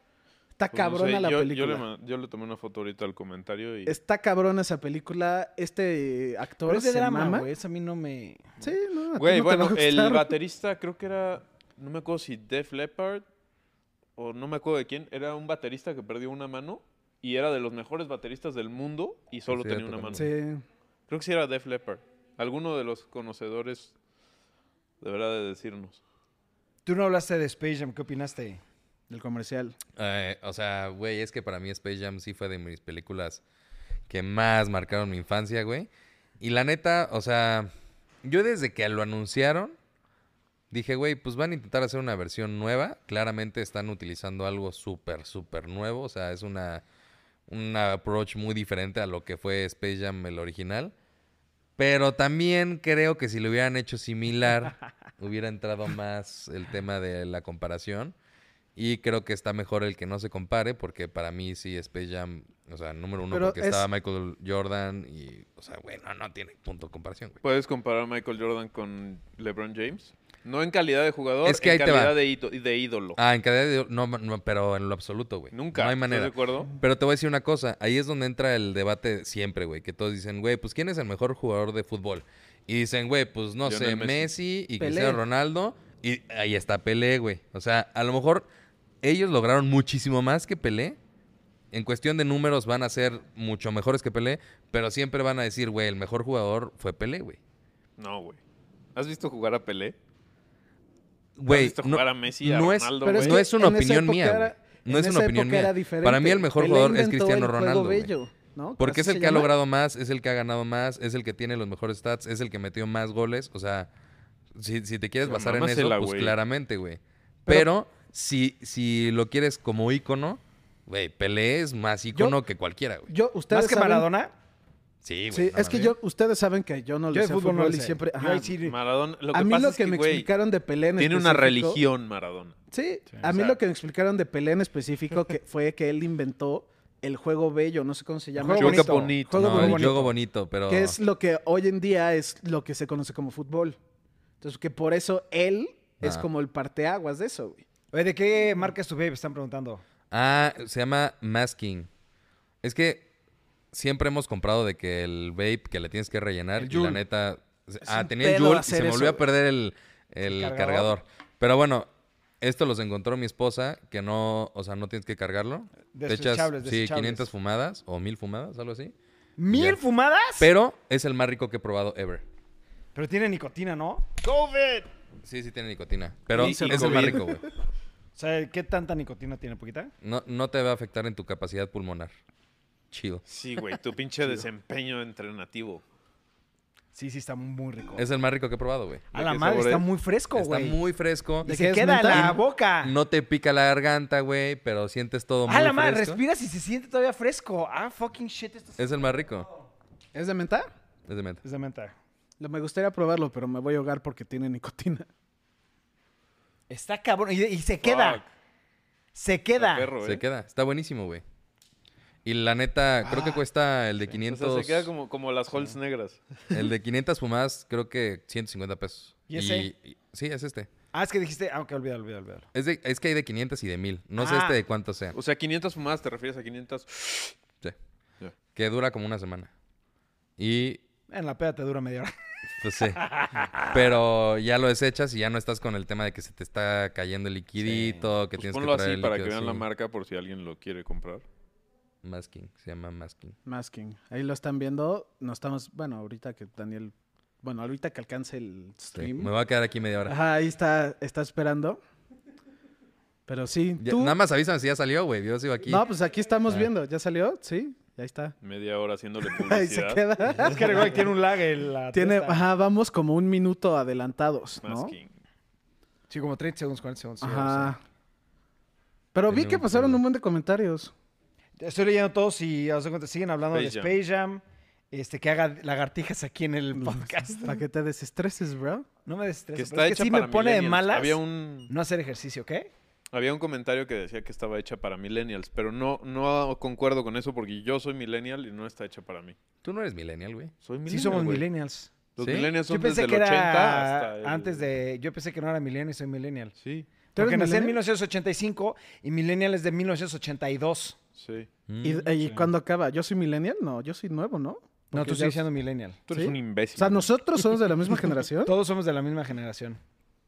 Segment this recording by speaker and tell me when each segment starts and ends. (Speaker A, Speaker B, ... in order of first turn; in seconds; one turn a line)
Speaker A: 0.6-1.8
Speaker B: 0.7-3.9
Speaker A: 3.9-7.5
Speaker C: 6.7-8.4
Speaker A: 8.6-10.3
Speaker B: 9.2-13.2
Speaker B: 14.2-20.3
Speaker D: 19.5-20.3
Speaker A: 20.1-20.6
Speaker B: 21.1-23.9
Speaker B: 25.0-26.0
Speaker C: 26.8-28.6
Speaker A: 29.1-29.7
Speaker D: 29.9-33.4
Speaker D: 34.1-35.9
Speaker D: 36.4-37.7
Speaker D: 38.2-39.8
Speaker D: 40.7-46.8
Speaker D: 47.5-50.9
Speaker D: 51.8-58.1
Speaker D: 58.8-67.4
Speaker A: 63.3-63.9
Speaker B: 67.4-73.2
Speaker D: 71.4-72.2
Speaker D: 73.2-88.5
Speaker B: 75.5-76.7
Speaker B: 83.6-84.3
Speaker A: 84.8-85.2
Speaker D: 89.0-91.0
Speaker D: 91.7-97.4
Speaker B: 98.0-98.4
Speaker B: 98.9-99.9
Speaker D: 101.4-108.1
Speaker B: 101.5-103.4
Speaker A: 103.0-109.5
Speaker D: 108.8-113.9
Speaker D: 114.5-123.1
Speaker B: 115.2-116.3
Speaker A: 122.1-122.4
Speaker A: 123.1-124.1
Speaker C: 123.5-124.3
Speaker D: 125.0-125.9
Speaker A: 125.3-128.5
Speaker C: 127.1-128.8
Speaker B: 128.6-130.3
Speaker A: 129.3-131.8
Speaker B: 131.0-132.6
Speaker A: 132.7-140.0
Speaker B: 133.2-133.6
Speaker C: 138.3-140.1
Speaker B: 138.6-139.5
Speaker D: 139.3-141.0
Speaker A: 140.7-143.8
Speaker A: 144.4-147.6
Speaker C: 147.9-149.8
Speaker D: 150.1-151.9
Speaker D: 152.6-153.1
Speaker D: 153.7-161.9
Speaker C: 156.6-157.0
Speaker A: 157.8-159.2
Speaker C: 160.2-160.9
Speaker D: 162.4-168.9
Speaker C: 165.9-167.3
Speaker C: 169.4-170.5
Speaker D: 169.5-169.8
Speaker D: 170.4-172.2
Speaker C: 172.9-174.9
Speaker D: 175.2-177.4
Speaker B: 176.3-177.2
Speaker A: 176.4-177.4
Speaker C: 178.2-179.9
Speaker D: 180.0-182.1
Speaker D: 182.9-183.2
Speaker B: 183.3-185.8
Speaker C: 186.9-188.0
Speaker D: 188.0-189.0
Speaker B: 189.1-189.8
Speaker C: 189.1-190.8
Speaker D: 190.3-191.5
Speaker A: 191.4-192.4
Speaker C: 191.4-192.9
Speaker D: 192.1-196.2
Speaker C: 195.4-198.8
Speaker D: 198.8-199.5
Speaker A: 200.1-200.7
Speaker D: 201.1-201.4
Speaker C: 201.4-201.9
Speaker A: 202.4-205.1
Speaker C: 206.7-208.2
Speaker B: 207.8-208.2
Speaker C: 209.1-209.9
Speaker B: 209.6-210.2
Speaker D: 210.0-211.2
Speaker D: 212.2-214.9
Speaker C: 213.0-213.4
Speaker B: 214.2-216.6
Speaker D: 216.5-220.7
Speaker C: 219.3-219.7
Speaker C: 220.9-222.5
Speaker D: 222.5-225.1
Speaker C: 224.2-224.6
Speaker B: 225.1-227.3
Speaker D: 228.5-229.5
Speaker D: 230.4-230.8
Speaker C: 231.1-232.1
Speaker D: 232.6-233.0
Speaker C: 232.8-233.8
Speaker D: 233.5-239.7
Speaker C: 237.6-238.1
Speaker B: 238.4-241.2
Speaker D: 242.0-243.4
Speaker A: 243.4-249.3
Speaker D: 248.9-250.2
Speaker A: 250.1-251.8
Speaker A: 253.3-254.2
Speaker D: 253.8-255.8
Speaker A: 255.7-258.3
Speaker B: 258.4-260.0
Speaker A: 259.3-261.0
Speaker C: 260.3-262.4
Speaker A: 261.9-264.9
Speaker B: 264.6-265.1
Speaker C: 266.1-267.7
Speaker A: 267.2-267.8
Speaker A: 269.1-270.9
Speaker D: 269.3-270.0
Speaker C: 271.6-277.6
Speaker B: 273.5-273.9
Speaker A: 276.8-278.9
Speaker C: 279.1-282.7
Speaker B: 279.6-281.7
Speaker B: 283.1-289.4
Speaker D: 289.6-290.5
Speaker B: 290.6-291.4
Speaker C: 290.9-291.9
Speaker B: 292.1-294.6
Speaker D: 292.2-292.5
Speaker C: 292.7-296.5
Speaker B: 296.6-296.9
Speaker C: 297.1-301.0
Speaker A: 297.1-297.8
Speaker B: 301.2-301.5
Speaker D: 301.7-302.1
Speaker A: 301.8-305.4
Speaker C: 302.1-302.5
Speaker C: 304.9-306.0
Speaker B: 306.1-307.5
Speaker A: 306.1-308.5
Speaker C: 308.4-309.8